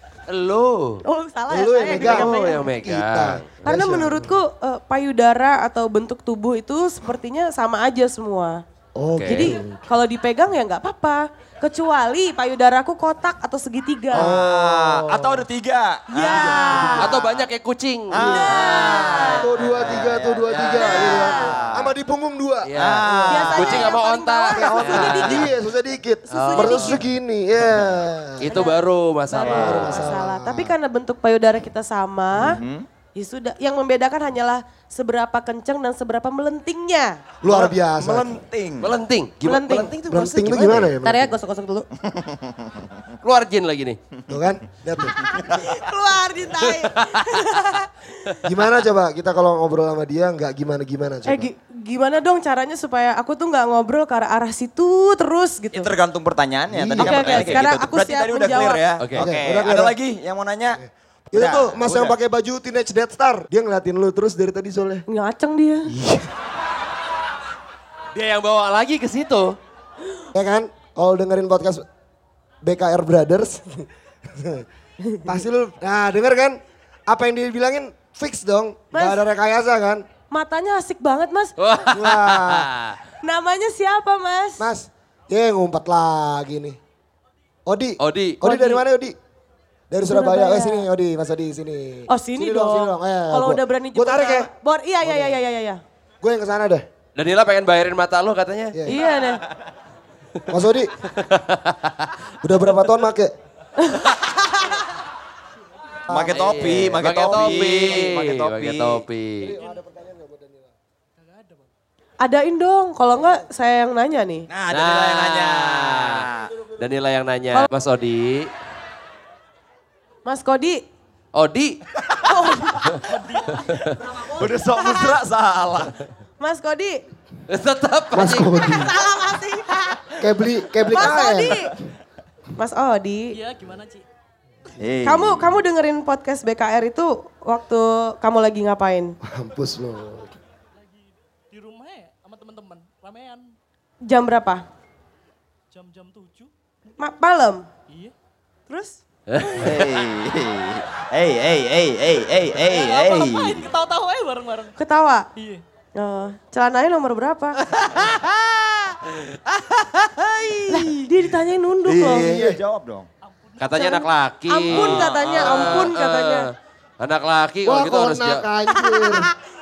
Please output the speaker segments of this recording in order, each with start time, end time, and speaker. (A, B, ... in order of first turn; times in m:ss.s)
0:00.3-0:01.0 A
0:01.1-0:02.7 B
0:01.5-0:04.4 C
0:01.9-0:03.5 A
0:03.6-0:08.6 B
0:09.0-0:09.8 C
0:09.2-0:09.5 A
0:09.3-0:14.4 B
0:14.1-0:15.5 C
0:14.1-0:17.4 D
0:16.1-0:17.0 B
0:16.2-0:17.2 C
0:17.0-0:21.5 A
0:18.1-0:20.1 D
0:18.2-0:19.4 B
0:19.4-0:23.2 C
0:20.8-0:21.4 B
0:21.0-0:21.9 D
0:22.6-0:25.5 A
0:22.8-0:23.9 D
0:23.3-0:25.5 B
0:24.6-0:28.5 C
0:26.3-0:27.0 B
0:26.3-0:27.0 A
0:28.4-0:30.1 A
0:28.4-0:32.6 B
0:29.4-0:30.7 C
0:32.4-0:32.9 D
0:33.2-0:37.2 B
0:37.4-0:38.3 C
0:37.4-0:38.9 D
0:38.8-0:40.9 A
0:39.4-0:39.9 B
0:40.0-0:41.3 C
0:41.0-0:41.9 B
0:42.1-0:42.8 D
0:43.2-0:44.0 A
0:44.3-0:45.2 C
0:45.2-0:48.3 B
0:46.8-0:47.4 A
0:48.4-0:51.5 C
0:51.3-0:55.9 B
0:55.7-1:00.8 D
0:56.7-0:57.2 C
0:57.0-0:58.8 B
0:57.3-0:57.6 A
0:59.0-0:59.3 A
0:59.1-1:00.0 C
1:00.8-1:05.0 C
1:01.3-1:02.1 D
1:05.1-1:05.9 B
1:05.9-1:06.3 C
1:08.2-1:09.6 A
1:10.3-1:11.8 C
1:12.6-1:14.7 C
1:15.2-1:20.0 C
1:18.9-1:19.2 B
1:20.3-1:21.6 B
1:21.6-1:23.0 A
1:21.9-1:22.7 C
1:23.2-1:24.7 B
1:24.6-1:26.8 C
1:27.7-1:29.2 C
1:28.0-1:28.4 A
1:28.4-1:28.8 B
1:29.9-1:34.5 C
1:30.1-1:30.9 B
1:32.1-1:35.8 B
1:35.0-1:35.4 C
1:36.2-1:36.8 C
1:37.2-1:38.8 A
1:38.7-1:39.0 C
1:38.9-1:39.4 B
1:40.5-1:40.9 C
1:41.0-1:42.1 A
1:42.4-1:43.3 C
1:43.8-1:44.8 B
1:46.1-1:49.0 D
1:46.2-1:49.5 A
1:49.4-1:50.7 C
1:49.5-1:49.8 E
1:51.2-1:51.7 E
1:52.2-1:54.5 B
1:54.5-1:56.5 D
1:54.7-1:56.2 A
1:56.8-1:58.5 A
2:00.3-2:00.8 B
2:01.4-2:01.8 A
2:02.2-2:02.9 B
2:02.8-2:03.0 A
2:03.6-2:04.0 A
2:04.3-2:05.9 D
2:04.8-2:05.2 B
2:06.4-2:07.0 B
2:07.5-2:08.9 A
2:08.1-2:09.0 C
2:08.7-2:10.0 B
2:10.2-2:11.7 C
2:10.9-2:11.7 B
2:12.6-2:13.4 B
2:13.3-2:14.0 E
2:14.8-2:15.6 D
2:15.0-2:19.1 B
2:19.2-2:20.3 C
2:21.5-2:23.4 E
2:24.0-2:24.6 B
2:25.7-2:26.5 E
2:27.0-2:27.6 B
2:28.7-2:29.0 B
2:29.3-2:29.7 A
2:29.6-2:33.6 D
2:32.6-2:34.8 E
2:34.8-2:35.3 B
2:36.0-2:37.6 B
2:40.4-2:40.9 A
2:40.7-2:42.3 B
2:41.9-2:42.6 C
2:41.9-2:43.1 D
2:43.6-2:43.9 E
2:43.6-2:48.5 A
2:43.7-2:46.5 B
2:47.6-2:49.3 C